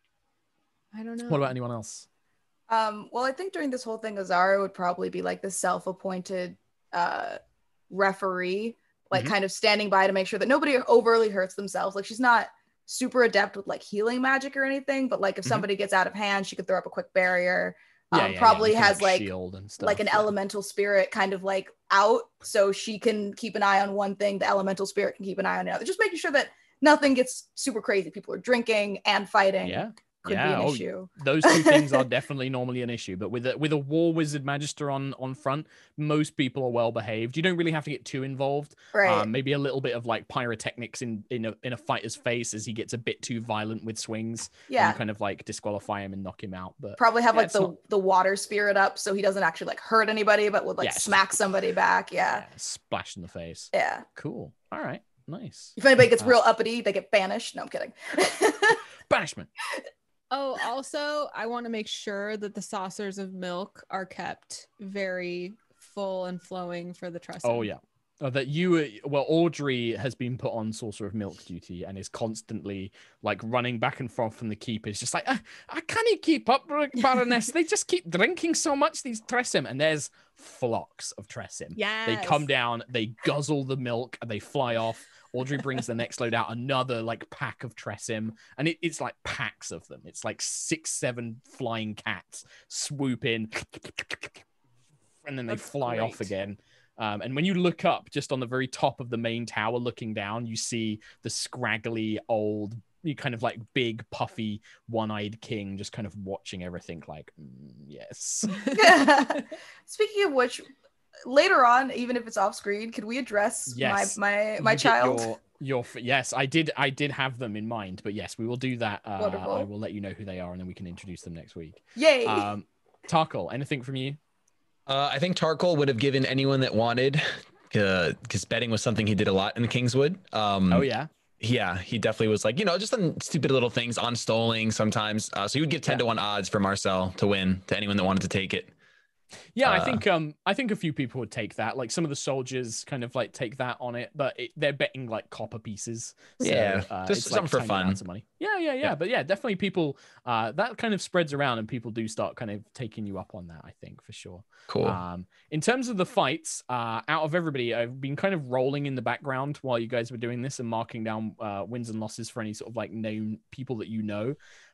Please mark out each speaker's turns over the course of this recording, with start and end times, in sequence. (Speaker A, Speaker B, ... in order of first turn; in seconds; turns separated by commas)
Speaker A: 0.9-1.5, Speaker B: 1.3-2.1, Speaker C: 2.7-7.4, Speaker C: 7.9-31.9, Speaker B: 18.1-20.3, Speaker B: 29.6-47.7, Speaker C: 38.9-39.3, Speaker C: 44.7-45.0, Speaker C: 47.0-52.5, Speaker B: 50.8-51.2, Speaker B: 52.3-56.4, Speaker C: 53.7-54.0, Speaker C: 55.8-58.8, Speaker B: 59.1-59.5, Speaker A: 60.3-67.7, Speaker B: 67.4-94.4, Speaker A: 81.8-82.5, Speaker B: 95.2-108.7, Speaker A: 95.5-96.3, Speaker C: 108.7-110.6, Speaker C: 111.2-115.3, Speaker B: 113.7-124.2, Speaker C: 119.2-119.7, Speaker C: 122.0-122.5, Speaker D: 124.9-130.9, Speaker B: 130.7-131.1, Speaker D: 131.4-138.7, Speaker B: 139.6-164.4, Speaker D: 139.6-140.0, Speaker D: 146.4-148.0, Speaker D: 154.7-155.0